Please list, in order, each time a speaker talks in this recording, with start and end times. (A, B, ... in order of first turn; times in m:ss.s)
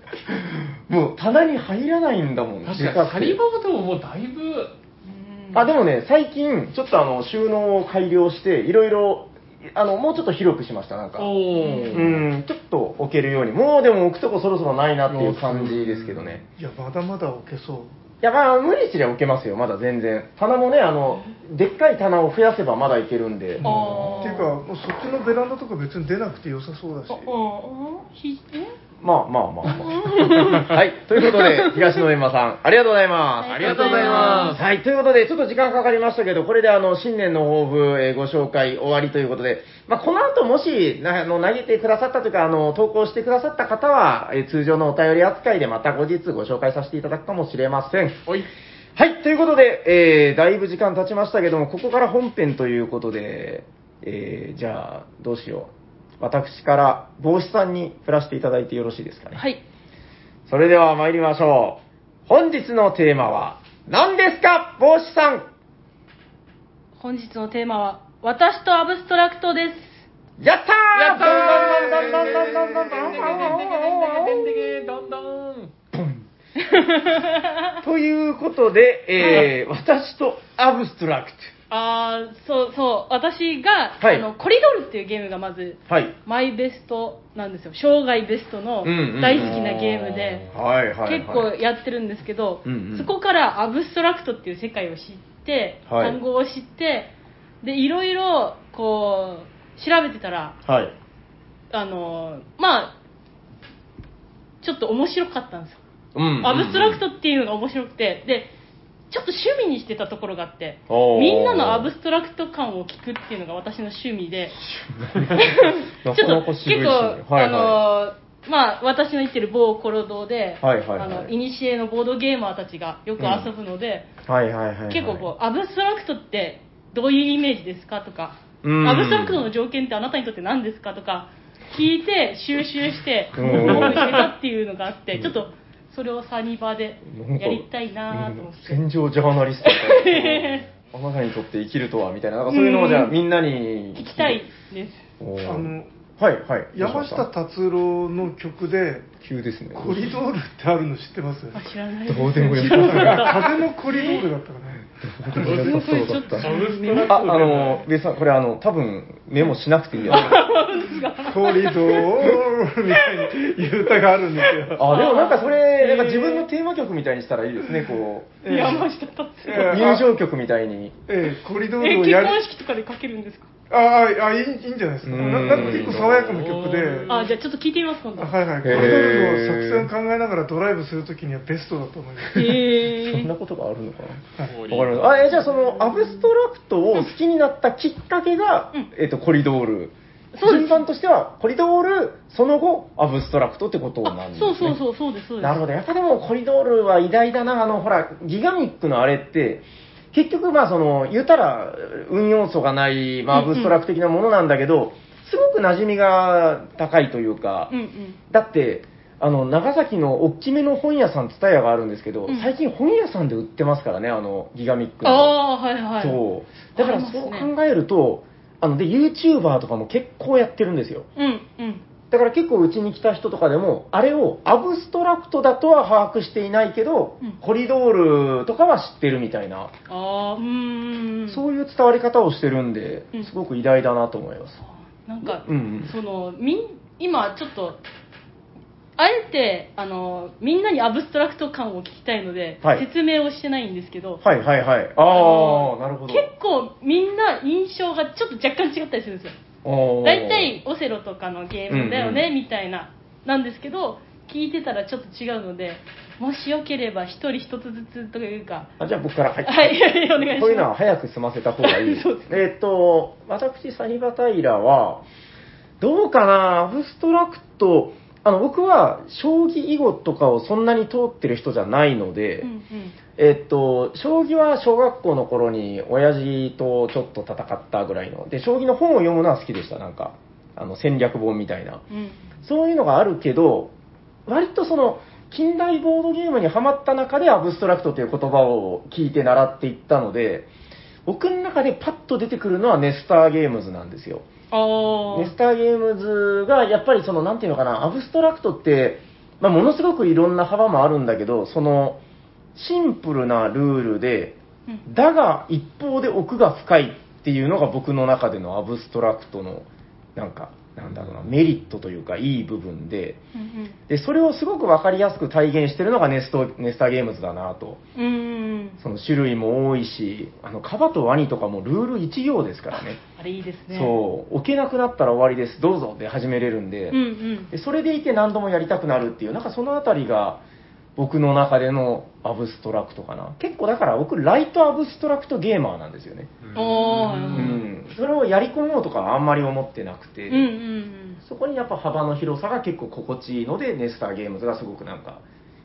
0:00.2-0:03.4 A
0:02.6-0:04.7 B
0:05.0-0:05.7 C
0:05.5-0:11.3 A
0:11.2-0:12.2 B
0:11.5-0:12.1 C
0:11.9-0:16.4 A
0:15.1-0:16.4 B
0:16.6-0:18.0 D
0:18.2-0:24.3 A
0:23.6-0:27.3 D
0:23.6-0:24.5 C
0:27.1-0:28.8 C
0:29.0-0:48.2 A
0:29.7-0:31.7 C
0:33.4-0:34.6 C
0:33.5-0:34.7 B
0:49.0-0:59.4 A
0:59.4-0:59.6 C
1:00.5-1:05.5 A
1:07.0-1:10.0 C
1:10.4-1:14.7 A
1:11.0-1:15.7 B
1:15.9-1:16.3 A
1:16.6-1:17.8 C
1:17.8-1:21.5 A
1:19.2-1:19.5 C
1:21.7-1:30.5 C
1:24.0-1:24.3 A
1:25.9-1:26.1 A
1:28.8-1:31.5 A
1:31.0-1:37.1 C
1:32.6-1:33.1 A
1:35.9-1:36.2 A
1:37.6-1:40.6 C
1:40.6-1:40.9 A
1:41.7-1:43.0 C
1:44.6-1:45.8 C
1:46.2-1:47.0 A
1:46.4-1:48.5 C
1:49.1-1:54.6 C
1:50.9-1:51.9 A
1:54.6-1:57.8 A
1:55.3-2:04.1 C
2:00.6-2:01.3 A
2:03.2-2:03.5 A
2:04.3-2:05.3 A
2:04.9-2:18.8 C
2:08.6-2:09.5 A
2:13.3-2:14.1 A
2:13.4-2:14.2 B
2:15.1-2:15.4 A
2:17.0-2:24.5 A
2:19.6-2:20.6 C
2:22.5-2:23.2 C
2:24.0-2:25.0 C
2:25.2-2:27.3 A
2:25.4-2:25.9 D
2:26.7-2:29.1 D
2:29.2-2:30.2 A
2:29.7-2:31.7 D
2:31.5-2:34.2 C
2:32.1-2:33.5 A
2:32.6-2:35.5 D
2:35.0-2:36.5 A
2:35.4-2:37.3 C
2:35.4-2:37.9 B
2:37.0-2:40.5 A
2:40.1-2:42.2 C
2:40.1-2:40.4 B
2:41.2-2:44.9 D
2:44.6-2:46.5 C
2:44.8-2:48.8 A
2:48.4-2:48.9 D
2:48.4-2:50.0 C
2:49.4-2:51.0 A
2:49.4-2:50.1 D
2:51.1-2:52.4 D
2:51.8-2:53.5 C
2:53.7-2:57.2 D
2:55.0-2:56.1 A
2:55.3-2:57.3 B
2:57.1-2:58.4 C
2:58.2-3:02.6 D
2:58.6-2:59.9 A
3:02.3-3:03.3 C
3:02.5-3:14.8 A
3:04.4-3:05.3 B
3:05.3-3:06.3 C
3:10.3-3:10.8 C
3:14.0-3:15.6 C
3:15.4-3:27.7 A
3:23.3-3:23.8 C
3:27.7-3:28.2 C
3:28.3-3:35.4 A
3:35.0-3:36.2 C
3:36.0-3:41.1 A
3:36.8-3:37.5 C
3:41.2-3:41.8 C
3:42.1-3:49.7 A
3:49.9-3:51.4 C
3:51.3-3:54.6 A
3:54.6-3:57.8 C
3:55.2-3:55.9 A
3:59.0-4:04.2 C
4:04.2-4:06.3 A
4:05.0-4:09.4 C
4:09.6-4:10.5 A
4:10.0-4:18.7 C
4:11.7-4:12.3 A
4:18.8-4:25.0 A
4:19.4-4:20.7 C
4:21.6-4:22.4 C
4:25.8-4:32.5 A
4:32.4-4:33.0 C
4:33.2-4:41.8 A
4:41.9-4:42.3 C
4:42.4-4:43.7 A
4:44.3-4:50.5 A
4:51.1-4:54.3 A
4:54.5-4:55.3 C
4:55.1-5:02.0 A
5:02.6-5:13.2 A
5:13.4-5:13.8 C
5:13.9-5:17.8 A
5:18.0-5:18.8 C
5:18.8-5:23.0 A
5:23.0-5:24.0 C
5:23.7-5:30.4 A
5:26.9-5:27.5 C
5:31.0-5:36.3 A
5:36.4-5:37.6 B
5:36.6-5:37.6 C
5:37.3-5:40.5 A
5:40.3-5:41.2 C
5:41.2-5:45.2 A